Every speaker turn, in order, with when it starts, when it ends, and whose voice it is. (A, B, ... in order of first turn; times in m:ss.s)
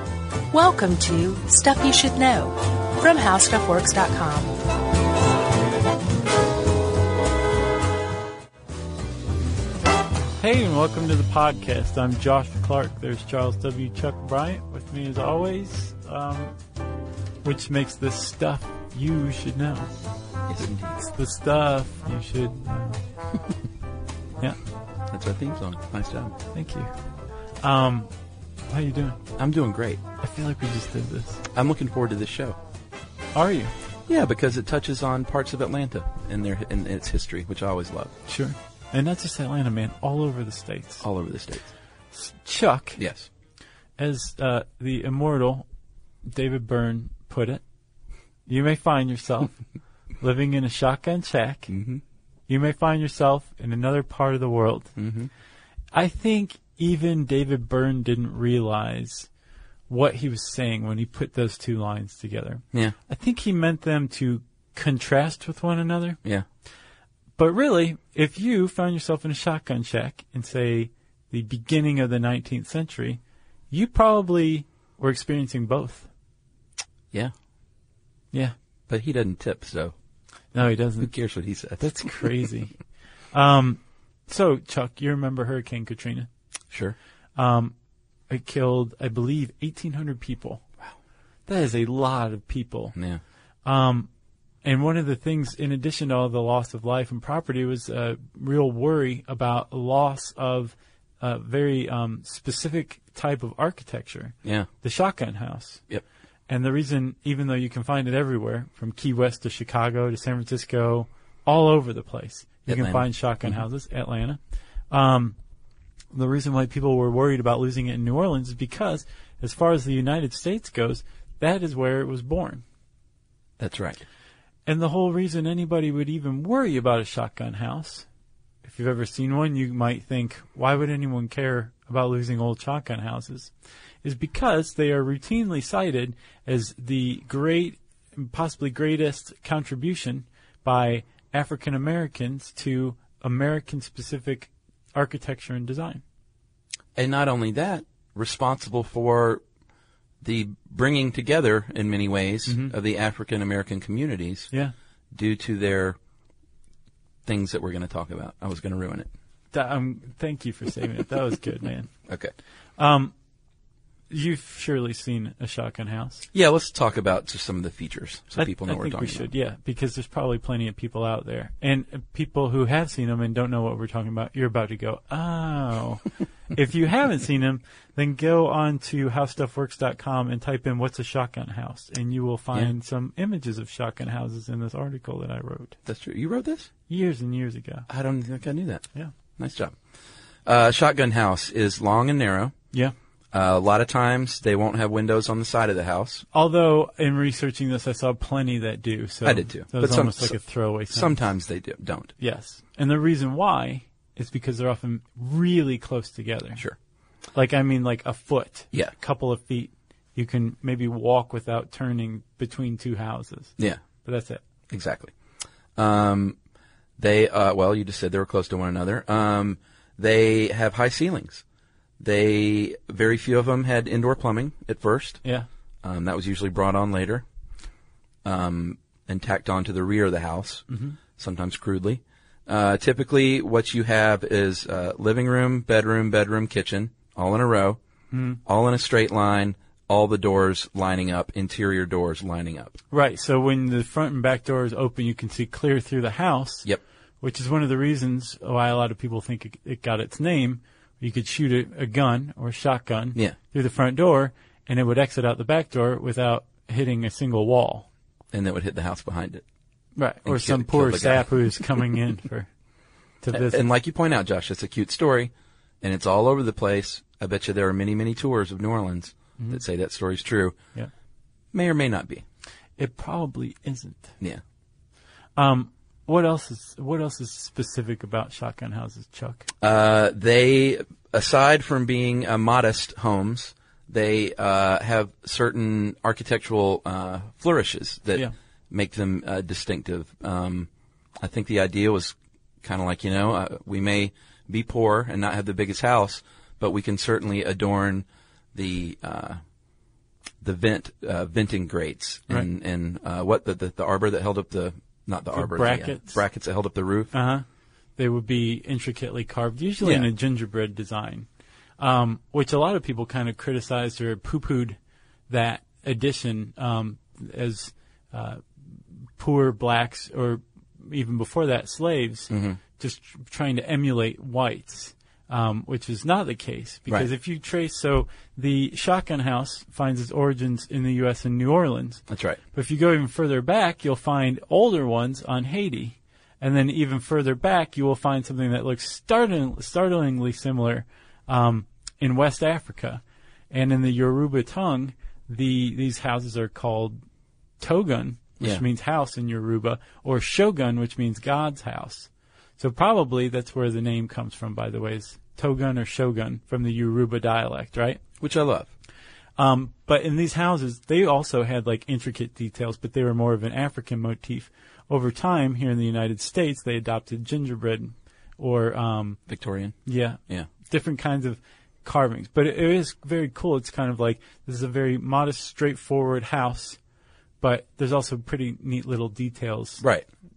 0:00.5-0:04.6 A
0:10.4-0:16.5 B
0:17.4-0:19.9 B
0:20.5-0:21.0 C
0:21.0-0:23.0 B
0:25.1-0:26.4 C
0:26.5-0:26.9 B
0:27.6-0:28.1 B
0:28.7-0:29.2 B
0:29.4-0:30.0 C
0:30.2-0:31.4 B
0:31.5-0:32.6 C
0:33.3-0:33.7 B
0:34.1-0:38.1 C
0:38.3-0:41.0 B
0:41.0-0:41.7 C
0:42.1-0:43.0 B
0:43.0-0:43.3 C
0:44.0-0:45.6 B
0:46.2-0:47.6 B
0:48.5-0:49.6 B
0:50.2-0:51.7 B
0:51.7-0:52.0 C
0:52.5-0:54.9 B
0:55.0-0:55.3 C
0:55.9-0:59.3 B
0:59.9-1:06.2 B
1:07.4-1:13.2 B
1:13.7-1:16.1 B
1:18.9-1:19.9 C
1:20.5-1:21.1 B
1:21.0-1:22.3 C
1:21.8-1:22.8 B
1:23.3-1:26.3 B
1:26.7-1:27.0 C
1:27.4-1:27.7 B
1:28.3-1:30.6 B
1:31.5-1:32.9 B
1:32.9-1:33.2 C
1:33.6-1:34.1 B
1:34.6-1:45.8 B
1:46.5-1:54.4 B
1:52.7-1:53.6 C
1:54.9-1:55.4 B
1:56.1-2:02.6 B
2:03.6-2:04.0 C
2:04.6-2:08.0 B
2:08.6-2:13.5 B
2:14.0-2:26.0 B
2:27.0-2:29.4 C
2:30.2-2:34.5 C
2:32.5-2:32.7 B
2:35.1-2:36.0 C
2:37.2-2:39.1 C
2:39.5-2:41.9 B
2:42.1-2:42.3 C
2:42.8-2:43.1 B
2:44.1-2:46.3 B
2:46.3-2:49.3 C
2:48.4-3:05.8 B
3:05.8-3:06.7 C
3:06.9-3:07.9 B
3:07.9-3:08.8 C
3:09.4-3:09.8 C
3:10.4-3:12.5 C
3:13.3-3:16.2 C
3:16.3-3:21.2 B
3:19.2-3:20.4 C
3:20.9-3:22.1 C
3:22.2-3:26.6 B
3:27.3-3:34.4 B
3:34.7-3:35.1 C
3:35.8-3:36.4 C
3:37.0-3:41.4 C
3:42.0-3:45.2 C
3:45.8-3:47.2 C
3:48.2-3:50.6 C
3:50.7-3:51.0 B
3:51.2-3:57.8 C
3:58.1-3:58.4 B
3:58.4-4:02.7 C
4:02.9-4:06.6 B
4:07.2-4:17.9 B
4:18.3-4:19.4 C
4:20.0-4:22.5 B
4:20.2-4:21.6 C
4:23.2-4:23.6 B
4:23.3-4:30.6 C
4:31.5-4:32.2 C
4:32.8-4:34.1 B
4:35.4-4:39.5 B
4:39.6-4:59.4 C
5:00.4-5:07.1 C
5:05.3-5:06.2 B
5:07.1-5:07.4 B
5:08.0-5:11.3 B
5:09.8-5:10.1 C
5:11.8-5:14.8 B
5:15.3-5:18.4 B
5:19.2-5:47.0 B
5:22.3-5:22.6 C
5:32.1-5:32.4 C
5:47.6-5:58.0 B
5:58.2-5:58.7 C
5:59.4-6:09.2 B
6:09.3-6:09.8 C
6:09.8-6:16.8 B
6:17.4-6:19.8 B
6:19.8-6:20.0 C